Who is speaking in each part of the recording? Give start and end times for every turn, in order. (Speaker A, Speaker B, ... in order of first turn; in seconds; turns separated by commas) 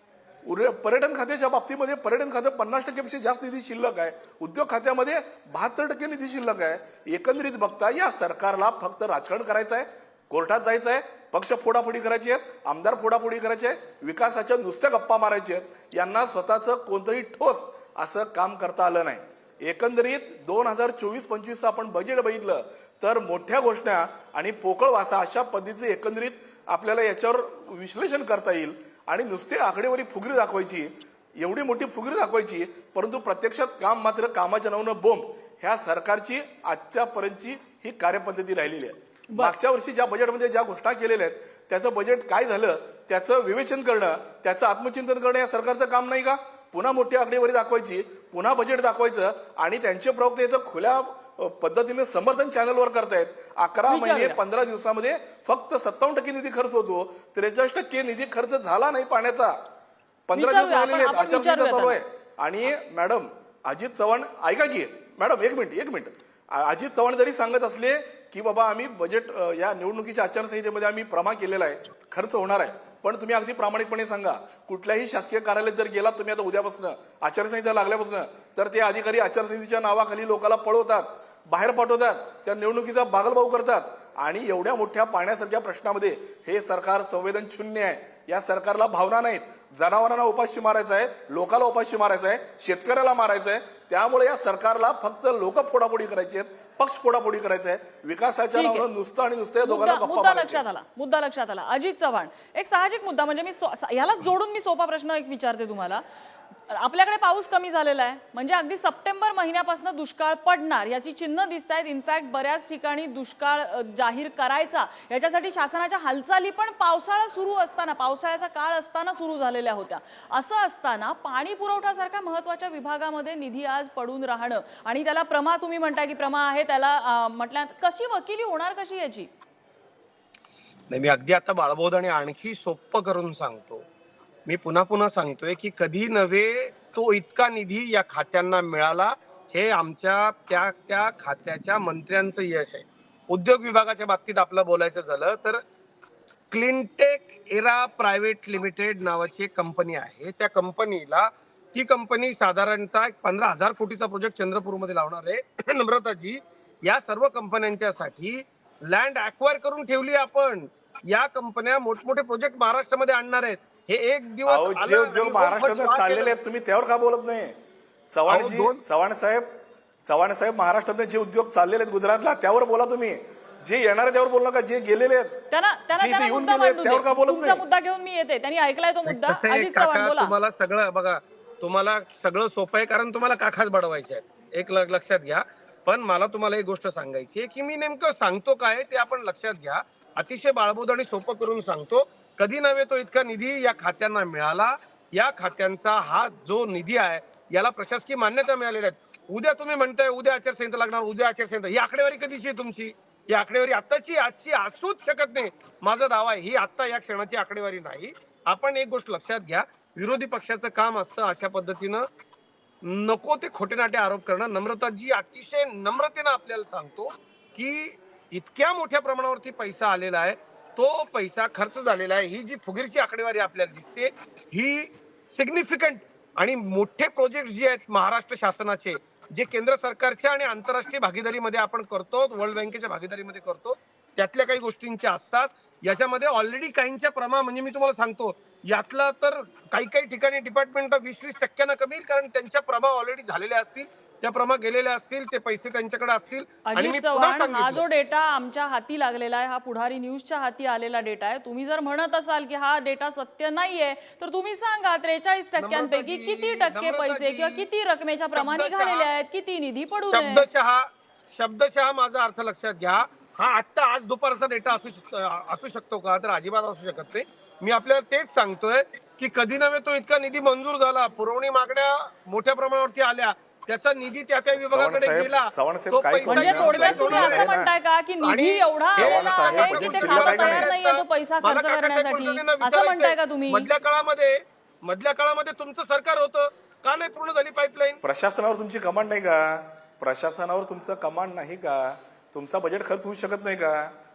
Speaker A: 0.4-59.6, Speaker B: 53.9-54.4, Speaker A: 60.3-100.6, Speaker B: 60.3-62.0, Speaker B: 98.5-98.8, Speaker B: 99.6-106.0, Speaker B: 106.7-129.3, Speaker C: 130.9-133.8, Speaker C: 134.5-145.6, Speaker C: 146.5-166.3, Speaker A: 164.4-167.5, Speaker A: 168.1-169.5, Speaker C: 168.3-168.8, Speaker A: 170.1-175.4, Speaker B: 175.5-180.3, Speaker A: 175.9-177.6, Speaker C: 179.1-212.0, Speaker C: 212.8-247.8, Speaker B: 246.7-260.4, Speaker C: 255.6-257.6, Speaker C: 258.3-259.1, Speaker C: 260.1-277.5, Speaker A: 274.6-277.7, Speaker B: 276.3-283.7, Speaker C: 278.2-288.0, Speaker A: 279.0-280.7, Speaker A: 288.0-293.9